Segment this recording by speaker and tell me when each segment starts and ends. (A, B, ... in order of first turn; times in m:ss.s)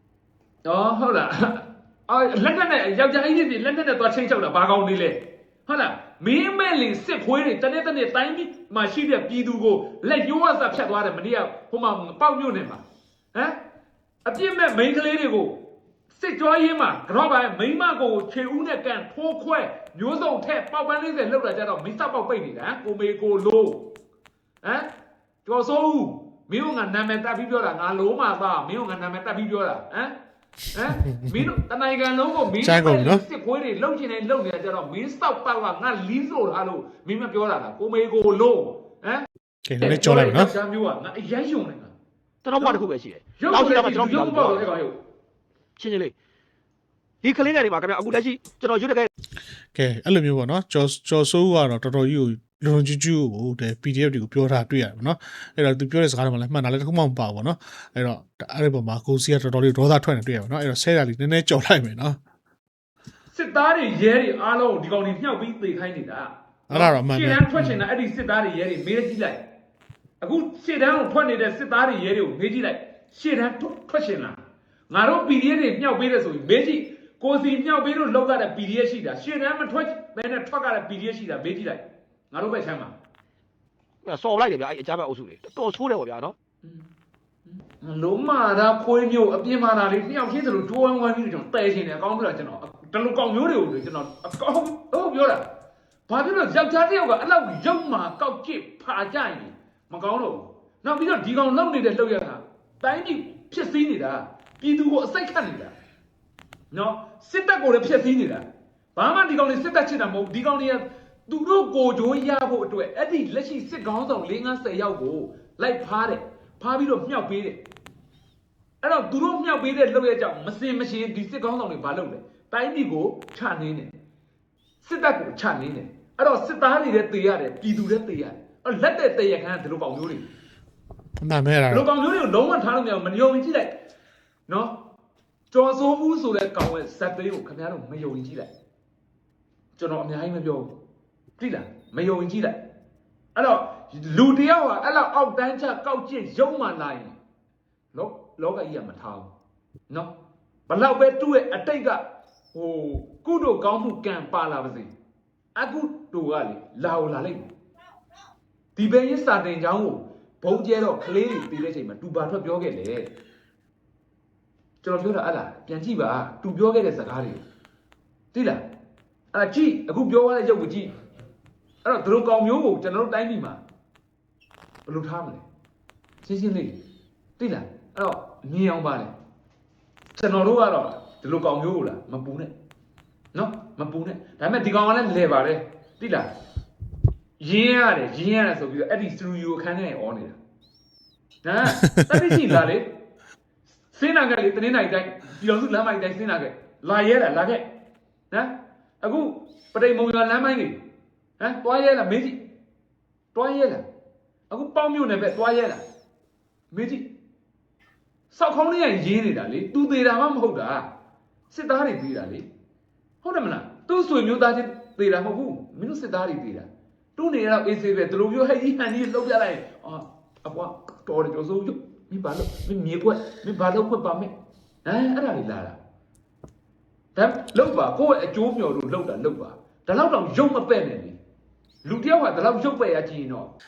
0:00.6-0:13.6 A
0:14.2-0:23.9 A
0:24.6-0:24.9 A
0:25.4-0:30.1 A
0:30.7-0:39.3 A
0:32.6-0:33.2 B
0:39.7-0:40.5 B
0:39.8-0:41.9 A
0:42.4-0:44.7 C
0:42.6-0:45.0 A
0:45.8-0:46.1 C
0:47.2-0:49.1 C
0:49.8-1:02.2 B
1:03.3-1:09.4 A
1:06.7-1:07.8 B
1:10.2-1:23.0 A
1:24.0-1:26.4 C
1:27.5-1:35.5 A
1:36.1-1:45.8 A
1:46.7-1:57.6 A
1:58.8-2:04.0 A
2:04.8-2:10.3 A
2:11.2-2:11.9 B
2:11.7-2:13.8 A
2:14.5-2:14.8 A
2:15.5-2:18.5 A
2:19.8-2:20.8 A
2:21.4-2:22.6 A
2:23.4-2:27.2 A
2:27.9-2:29.3 A
2:30.7-2:32.0 A
2:32.5-2:34.9 A
2:35.6-2:37.5 A
2:38.8-2:43.1 A
2:44.8-2:47.4 A
2:48.3-2:48.6 A
2:49.3-2:50.9 A
2:51.8-2:53.6 A
2:54.9-2:55.4 A
2:56.2-2:56.8 A
2:57.4-2:59.2 A
3:00.1-3:02.5 A
3:03.3-3:06.3 A
3:07.4-3:10.4 A
3:11.4-3:12.9 A
3:13.9-3:17.7 A
3:18.3-3:20.8 A
3:21.4-3:22.4 A
3:23.3-3:23.8 A
3:24.5-3:25.8 A
3:26.7-3:27.1 A
3:28.3-3:30.9 A
3:31.5-3:32.5 A
3:33.2-3:44.3 A
3:44.8-3:45.8 A
3:47.2-3:51.2 A
3:51.8-3:53.5 A